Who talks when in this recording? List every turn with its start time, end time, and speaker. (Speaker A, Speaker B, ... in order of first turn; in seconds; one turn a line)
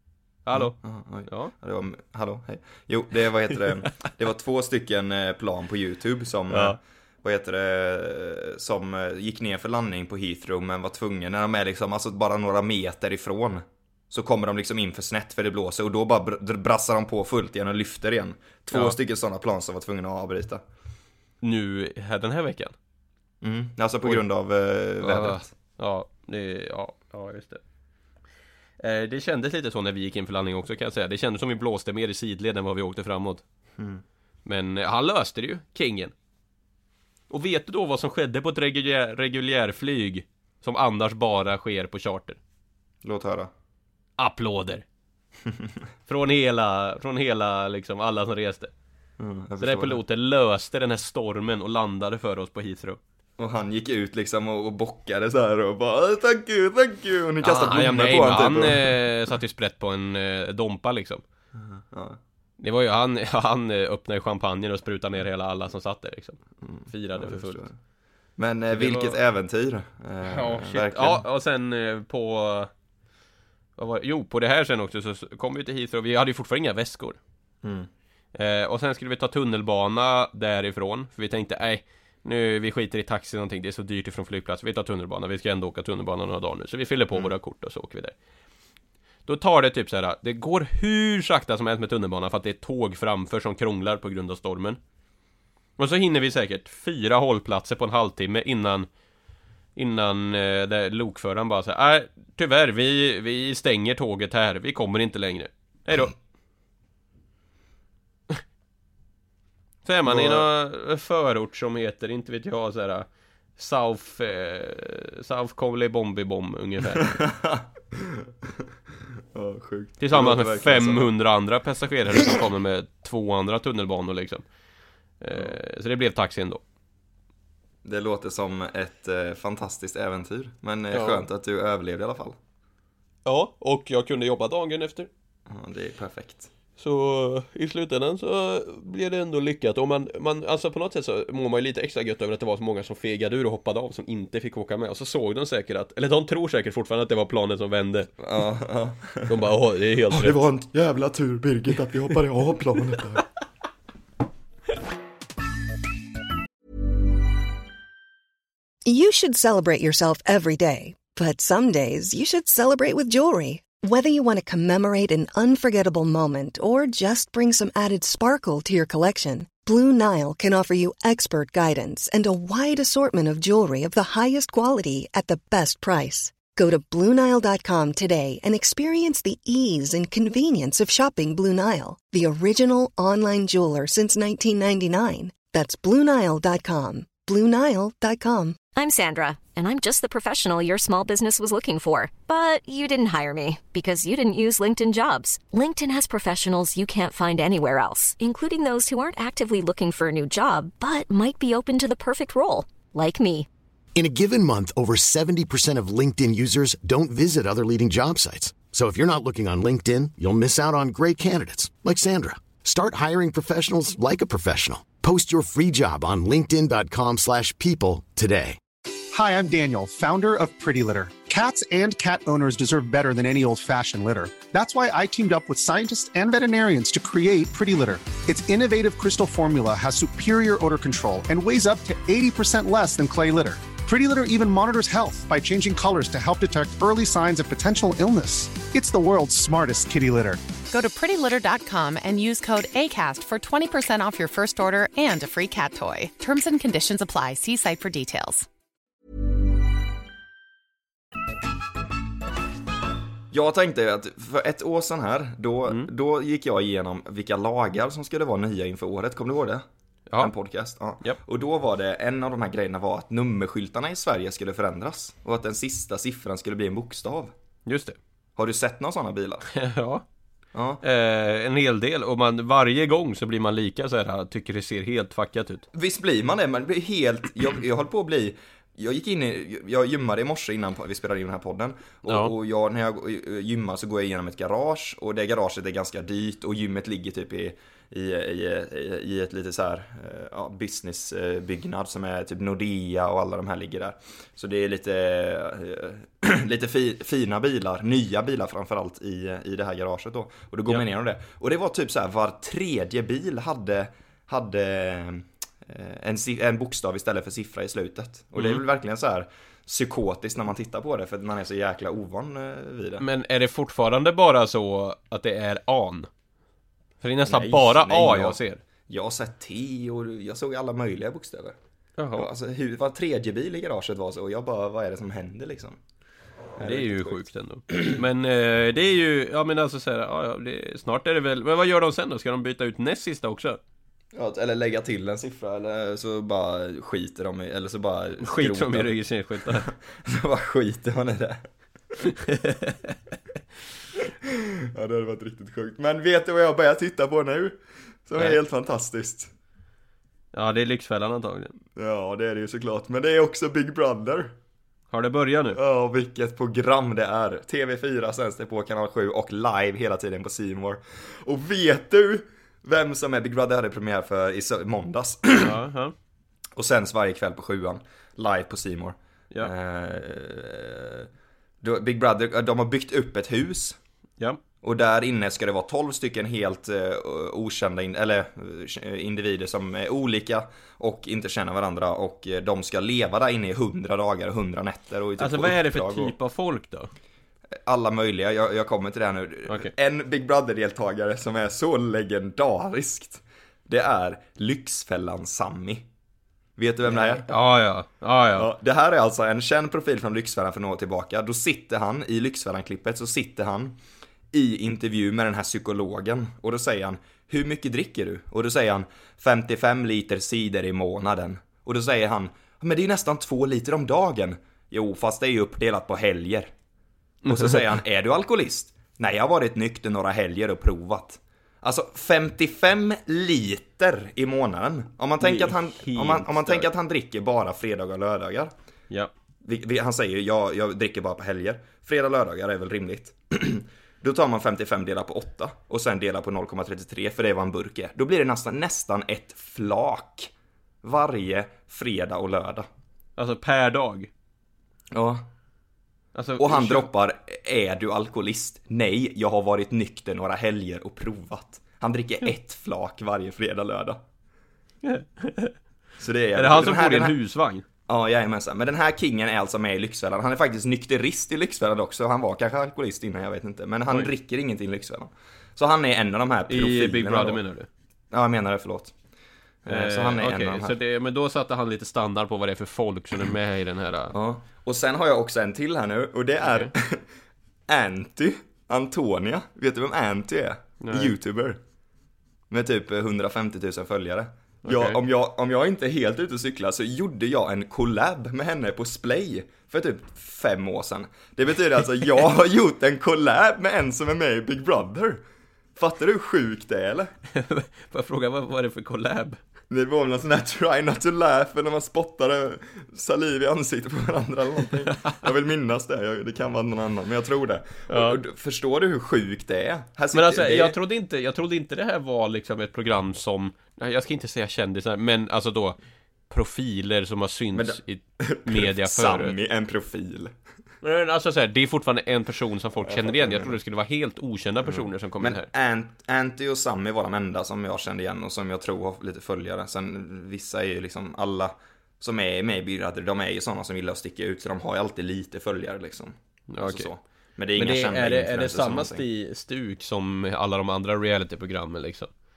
Speaker A: 0.4-1.5
Speaker B: 0.5-20.6
Speaker A: 6.5-6.8
Speaker A: 21.4-22.7
Speaker B: 23.4-25.5
Speaker A: 25.0-27.6
Speaker A: 28.8-33.4
Speaker B: 33.8-34.0
Speaker A: 34.5-36.1
Speaker A: 37.3-42.4
Speaker B: 43.0-43.5
Speaker A: 44.2-44.8
Speaker A: 46.1-48.7
Speaker B: 49.2-50.0
Speaker A: 49.6-53.0
Speaker B: 53.4-59.0
Speaker A: 57.4-61.2
Speaker B: 61.5-62.2
Speaker A: 62.6-67.7
Speaker B: 66.6-67.7
Speaker B: 68.4-71.2
Speaker A: 68.7-69.2
Speaker A: 70.2-72.7
Speaker A: 73.8-77.2
Speaker B: 77.6-77.9
Speaker A: 78.3-88.1
Speaker A: 89.2-94.8
Speaker A: 95.8-98.9
Speaker A: 99.8-106.1
Speaker A: 109.8-113.0
Speaker B: 110.0-110.5
Speaker A: 113.6-117.2
Speaker B: 116.9-118.6
Speaker B: 119.3-121.1
Speaker A: 120.0-124.4
Speaker A: 125.2-126.6
Speaker B: 127.8-132.4
Speaker A: 130.9-131.2
Speaker A: 133.2-135.1
Speaker B: 135.5-136.5
Speaker A: 136.8-148.1
Speaker B: 148.2-149.4
Speaker A: 149.2-150.4
Speaker B: 150.1-153.3
Speaker C: 158.8-188.6
Speaker D: 188.7-203.5
Speaker E: 203.9-218.6
Speaker F: 219.1-240.4
Speaker G: 240.7-248.5
Speaker B: 253.3-259.6
Speaker B: 260.2-267.3
Speaker A: 267.6-268.0
Speaker B: 268.4-269.5
Speaker A: 269.5-270.0
Speaker B: 270.5-270.8
Speaker A: 270.8-275.7
Speaker B: 275.7-313.1
Speaker A: 282.1-282.3
Speaker A: 308.4-308.6
Speaker A: 313.0-316.1
Speaker A: 317.0-318.6
Speaker B: 317.2-321.6
Speaker A: 322.0-322.3
Speaker B: 322.1-325.8
Speaker B: 326.6-327.2
Speaker A: 326.6-333.6
Speaker B: 334.1-342.1
Speaker A: 338.2-339.7
Speaker A: 342.1-342.9
Speaker B: 344.2-349.3
Speaker A: 350.3-351.5
Speaker B: 351.7-354.4
Speaker A: 354.9-355.6
Speaker B: 355.5-365.6
Speaker A: 365.4-365.9
Speaker B: 366.6-371.1
Speaker B: 371.6-373.8
Speaker B: 374.6-386.1
Speaker A: 385.2-386.9
Speaker B: 387.6-395.9
Speaker B: 396.6-397.3
Speaker A: 396.9-398.5
Speaker B: 398.3-403.8
Speaker B: 404.3-416.5
Speaker A: 417.2-417.7
Speaker B: 417.2-428.5
Speaker A: 425.2-426.7
Speaker B: 429.4-440.3
Speaker B: 440.8-442.7
Speaker A: 443.2-444.1
Speaker B: 444.9-445.3
Speaker A: 446.1-446.9
Speaker B: 446.4-454.0
Speaker A: 454.8-455.5
Speaker B: 456.0-457.1
Speaker A: 456.3-457.6
Speaker B: 457.9-467.4
Speaker A: 466.5-467.7
Speaker B: 468.1-468.9
Speaker B: 469.6-470.8
Speaker A: 469.7-474.1
Speaker B: 474.1-477.1
Speaker A: 476.4-476.7
Speaker B: 477.7-481.6
Speaker A: 480.8-481.1
Speaker B: 482.5-495.2
Speaker A: 484.6-485.0
Speaker B: 495.8-497.1
Speaker A: 497.3-499.4
Speaker B: 499.7-510.8
Speaker A: 507.9-508.2
Speaker A: 510.1-515.8
Speaker A: 516.3-519.4
Speaker B: 517.5-520.3
Speaker A: 520.8-525.5
Speaker B: 522.8-523.6
Speaker B: 524.6-539.0
Speaker A: 536.5-536.9
Speaker A: 537.5-542.1